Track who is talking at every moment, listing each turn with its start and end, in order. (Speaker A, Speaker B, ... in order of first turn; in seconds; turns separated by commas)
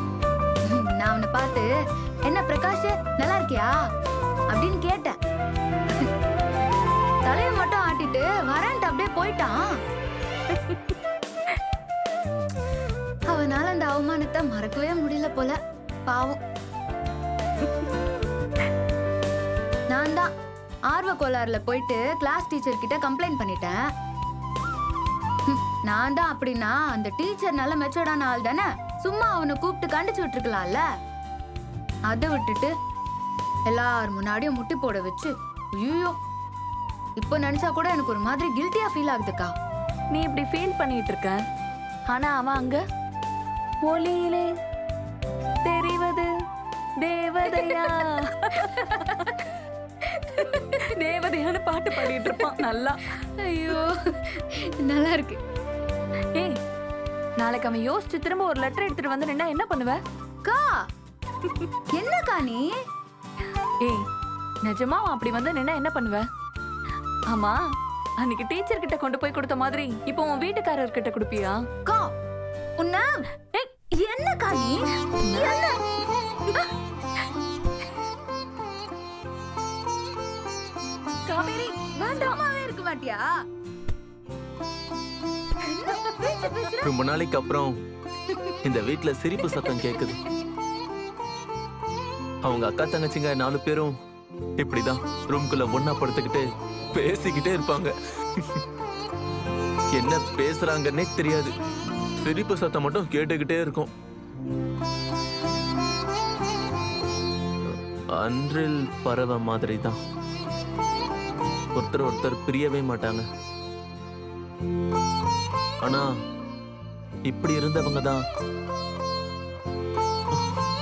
Speaker A: 0.7-1.7, Speaker A: 2.3-3.7, Speaker A: 4.5-5.2, Speaker A: 7.3-9.6, Speaker A: 13.3-16.4, Speaker A: 19.9-20.3, Speaker A: 20.9-23.8, Speaker A: 25.5-30.8, Speaker A: 32.1-32.7, Speaker A: 33.7-36.2, Speaker A: 37.2-39.5, Speaker B: 40.1-41.4, Speaker B: 42.1-42.8, Speaker B: 43.8-44.5, Speaker B: 45.6-46.3, Speaker B: 47.0-49.4, Speaker A: 48.6-49.3, Speaker B: 50.4-53.0, Speaker A: 52.0-52.4, Speaker A: 53.2-55.4, Speaker B: 57.4-60.0, Speaker A: 60.5-60.8, Speaker A: 62.0-62.7, Speaker B: 64.7-66.2, Speaker B: 67.3-67.6, Speaker B: 68.2-71.6, Speaker A: 71.8-72.1, Speaker A: 72.8-75.8, Speaker B: 75.2-75.6, Speaker B: 81.3-82.4, Speaker A: 81.4-83.2, Speaker A: 85.7-86.9, Speaker C: 86.8-87.8, Speaker C: 88.6-90.2, Speaker C: 92.4-94.0, Speaker C: 94.6-98.6, Speaker C: 99.9-101.5, Speaker C: 102.2-103.9, Speaker C: 107.7-110.0, Speaker C: 111.8-113.2, Speaker C: 117.3-118.2